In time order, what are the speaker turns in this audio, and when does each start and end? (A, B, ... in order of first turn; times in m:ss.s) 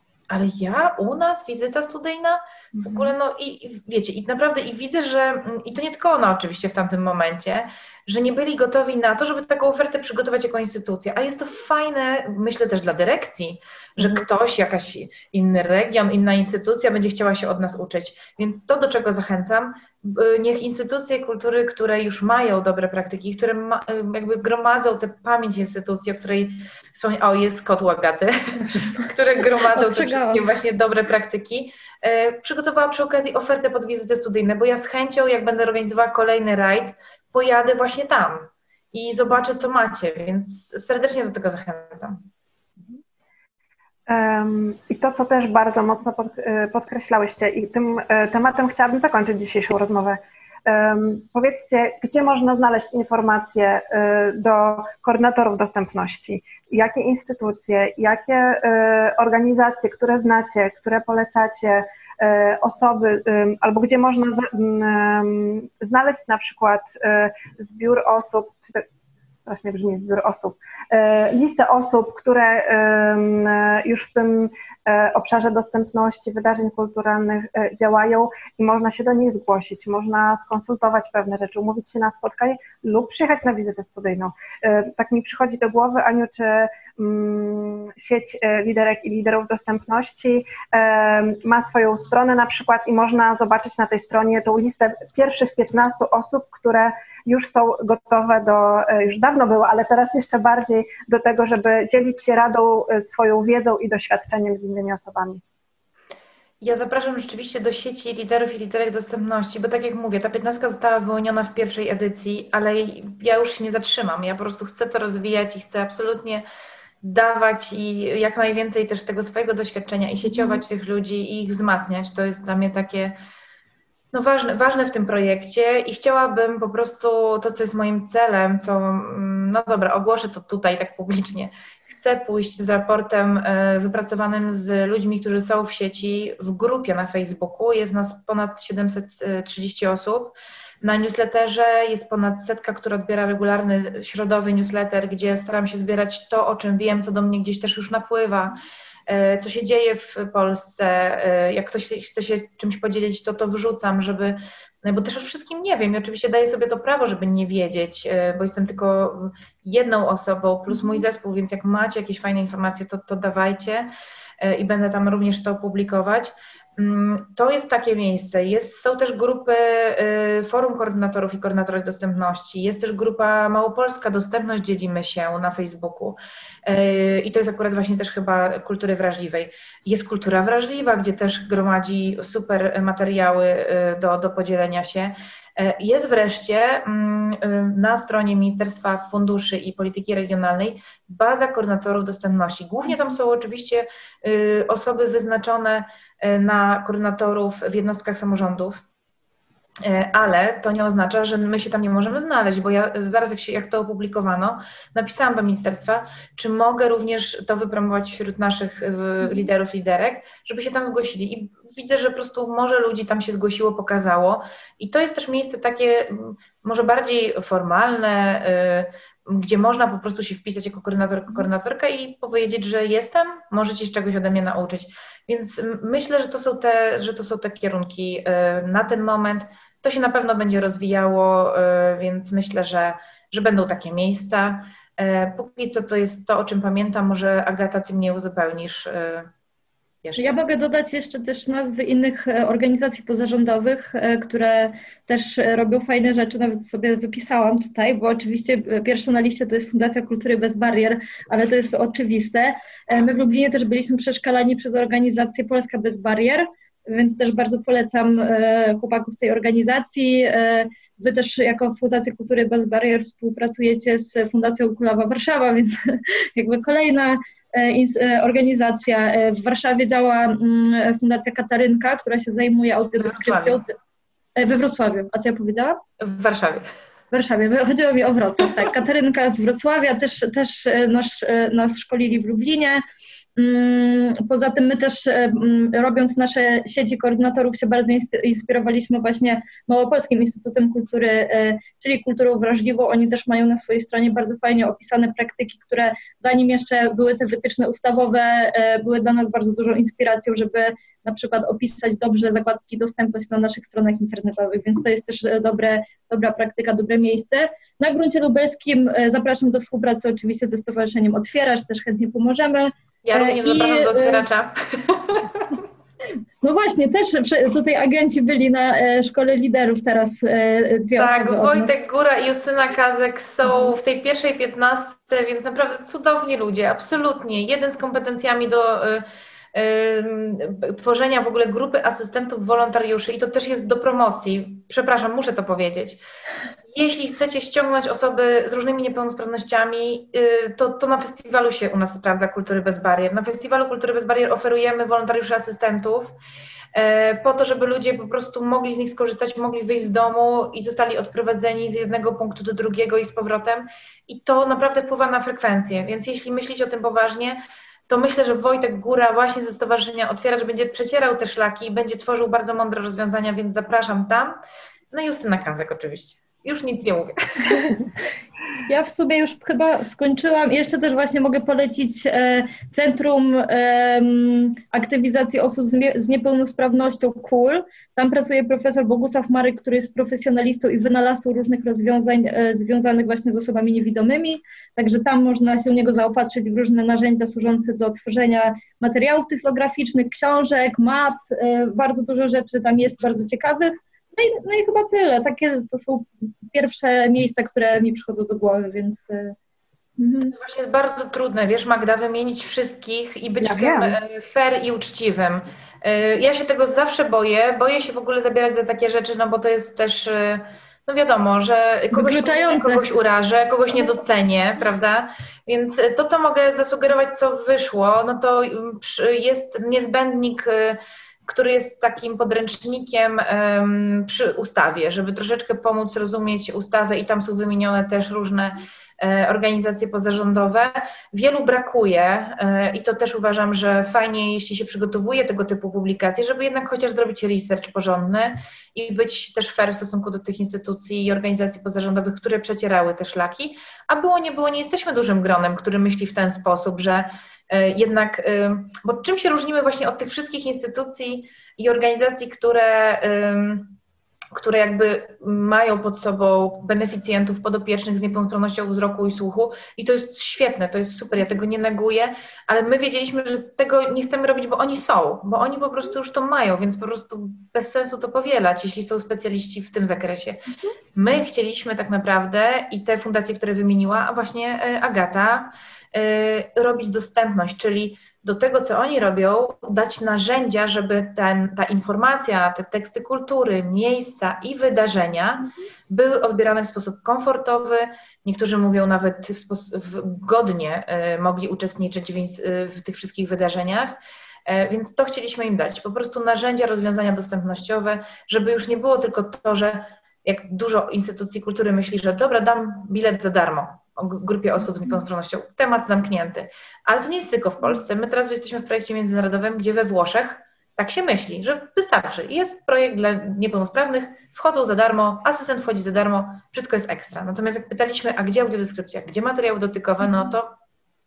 0:00.3-0:42.2 A
0:02.7-0:03.1 B
0:29.7-0:30.4 C
0:44.1-1:08.9 B
1:09.5-1:45.4 B
1:46.6-1:56.4 A
1:57.0-2:03.2 A
2:00.3-2:00.6 B
2:04.1-2:43.9 A
2:44.4-3:18.8 A
3:19.8-3:59.3 A
4:00.0-4:00.4 A
4:00.2-4:33.8 C
4:33.0-4:33.6 A
4:34.4-4:35.8 C
4:36.0-4:36.6 A
4:37.1-4:42.8 C
4:43.4-5:14.3 C
5:13.0-5:15.6 A
5:16.4-5:21.8 C
5:21.0-5:36.0 A
5:36.7-5:46.1 A
5:46.7-6:04.4 A
6:04.9-6:07.8 A
6:08.7-6:39.4 C
6:40.0-6:40.4 C
6:40.3-7:33.8 A
6:43.4-6:44.0 B
6:51.9-6:52.8 C
7:34.3-7:50.4 A
7:51.0-8:40.5 A